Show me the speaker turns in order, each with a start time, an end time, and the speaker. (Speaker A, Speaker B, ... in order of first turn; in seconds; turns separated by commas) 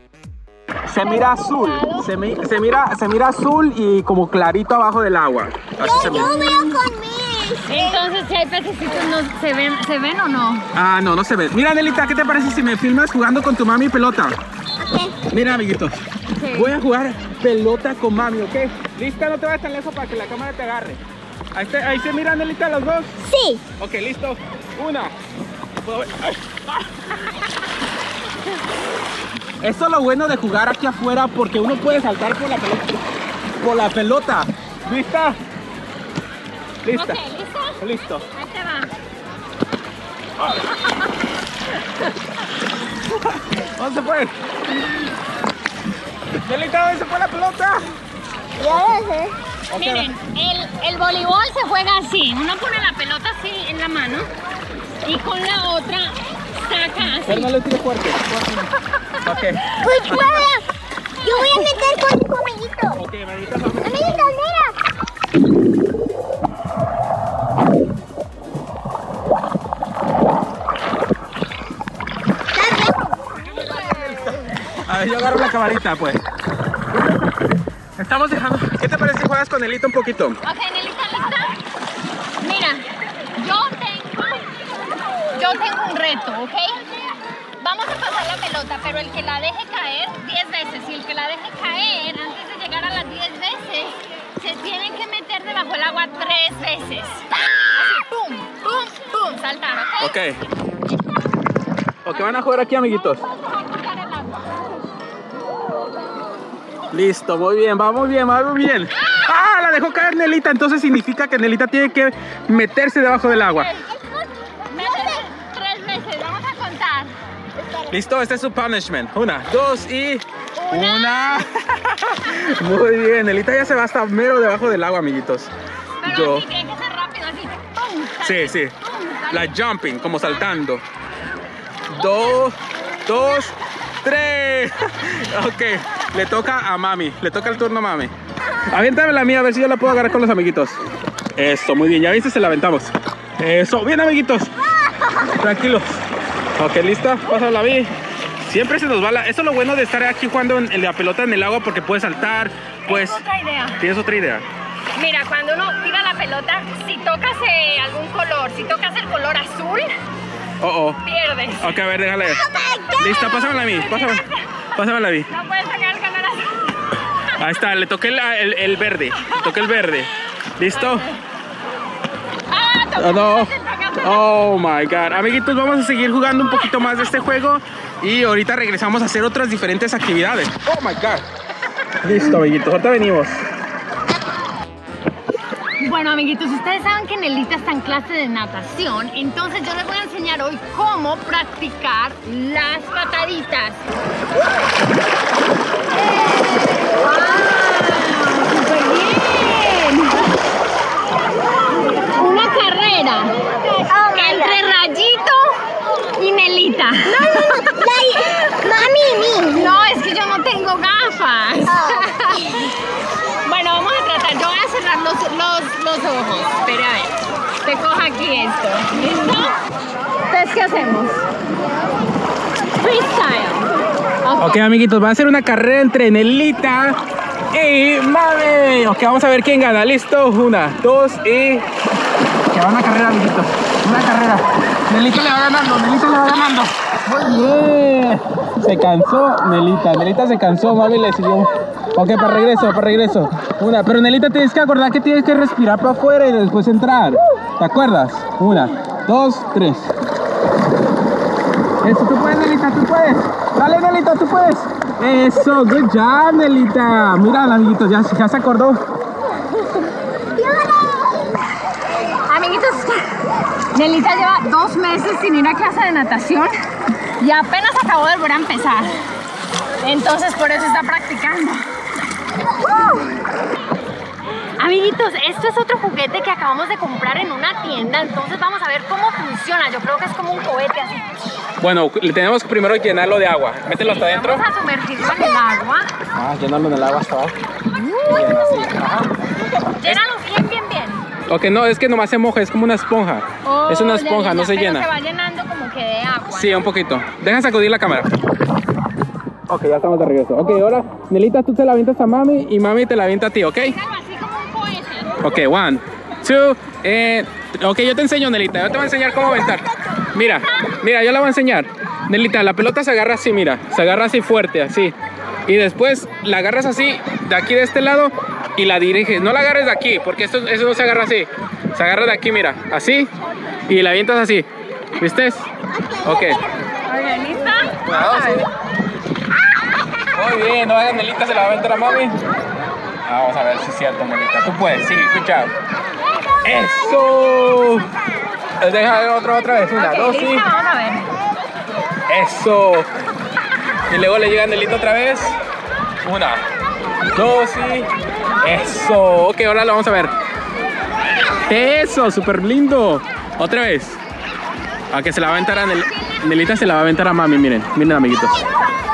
Speaker A: 0.9-6.6, Speaker B: 1.0-2.1, Speaker C: 5.8-8.1, Speaker B: 6.1-6.8, Speaker B: 7.7-10.7, Speaker A: 10.8-14.4, Speaker C: 14.8-15.2, Speaker A: 15.3-15.9, Speaker B: 16.4-16.7, Speaker A: 16.5-21.0, Speaker A: 21.5-23.2, Speaker C: 23.2-23.6, Speaker A: 23.8-25.1, Speaker A: 25.8-27.1, Speaker A: 29.6-33.0, Speaker A: 33.6-35.4, Speaker A: 36.8-37.2, Speaker B: 36.9-38.9, Speaker A: 37.8-38.2, Speaker A: 40.4-40.8, Speaker A: 43.1-44.3, Speaker A: 46.4-47.9, Speaker C: 48.6-49.4, Speaker A: 49.7-50.1, Speaker B: 49.8-54.3, Speaker B: 55.0-57.5, Speaker A: 57.3-58.7, Speaker A: 59.2-60.5, Speaker C: 59.8-60.7, Speaker C: 61.2-63.0, Speaker B: 61.3-61.6, Speaker A: 63.0-64.3, Speaker C: 63.8-64.8, Speaker C: 72.5-73.3, Speaker A: 74.7-76.2, Speaker A: 78.0-80.4, Speaker B: 80.4-81.6, Speaker B: 82.4-84.5, Speaker B: 85.3-86.8, Speaker B: 87.6-100.2, Speaker A: 100.0-100.4, Speaker A: 102.0-103.2, Speaker B: 103.1-104.6, Speaker A: 106.9-113.7, Speaker B: 113.3-113.9, Speaker B: 114.7-117.1, Speaker C: 114.7-115.3, Speaker C: 117.6-118.0, Speaker A: 117.9-125.5, Speaker B: 120.6-121.4, Speaker B: 126.0-130.5, Speaker A: 126.0-126.5, Speaker A: 128.2-128.7, Speaker A: 129.3-130.8, Speaker A: 131.9-138.1, Speaker B: 132.0-132.4, Speaker A: 138.7-140.8, Speaker A: 141.4-144.5, Speaker A: 145.3-146.0, Speaker A: 146.6-147.9, Speaker A: 148.4-153.2, Speaker B: 152.9-153.8, Speaker A: 153.8-154.5, Speaker B: 154.9-159.9, Speaker A: 160.6-161.0, Speaker B: 161.0-161.7, Speaker A: 161.6-164.2, Speaker C: 162.3-163.1, Speaker B: 163.0-164.3, Speaker A: 164.8-165.3, Speaker B: 165.3-166.8, Speaker A: 167.4-171.1, Speaker B: 170.7-171.2, Speaker B: 172.5-174.2, Speaker A: 173.0-181.2, Speaker A: 182.0-183.4, Speaker B: 185.8-193.8, Speaker B: 196.8-200.3, Speaker B: 202.2-203.4, Speaker C: 203.7-204.6, Speaker B: 204.1-205.6, Speaker B: 206.2-207.7, Speaker C: 207.1-209.8, Speaker B: 209.5-212.7, Speaker C: 211.7-212.6, Speaker B: 213.4-219.6, Speaker B: 220.3-221.3, Speaker B: 222.7-223.7, Speaker B: 224.2-224.6, Speaker A: 224.4-227.0, Speaker A: 227.5-231.7, Speaker A: 232.5-249.9, Speaker A: 251.8-258.8, Speaker C: 260.4-261.3, Speaker B: 262.3-263.2, Speaker B: 263.7-266.6, Speaker B: 267.2-268.9, Speaker B: 269.8-271.7, Speaker B: 274.6-281.1, Speaker A: 281.6-284.4, Speaker B: 283.8-285.9, Speaker A: 286.1-287.4, Speaker B: 287.7-288.7, Speaker A: 288.1-290.0, Speaker B: 289.8-291.1, Speaker A: 291.3-294.9, Speaker B: 293.4-296.7, Speaker A: 296.3-298.1, Speaker A: 299.5-303.8, Speaker B: 303.6-305.2, Speaker A: 305.2-314.9, Speaker A: 315.5-323.1, Speaker A: 323.7-324.5, Speaker A: 325.0-325.5, Speaker A: 326.0-326.4, Speaker B: 326.9-328.5, Speaker A: 327.9-328.5, Speaker A: 330.1-332.2, Speaker A: 333.1-335.5, Speaker A: 336.4-337.9, Speaker A: 338.6-340.4, Speaker B: 339.8-341.1, Speaker A: 342.1-342.9, Speaker A: 343.9-345.4, Speaker A: 346.0-346.4, Speaker A: 347.1-347.9, Speaker A: 348.4-350.1, Speaker A: 351.5-354.0, Speaker A: 354.9-358.5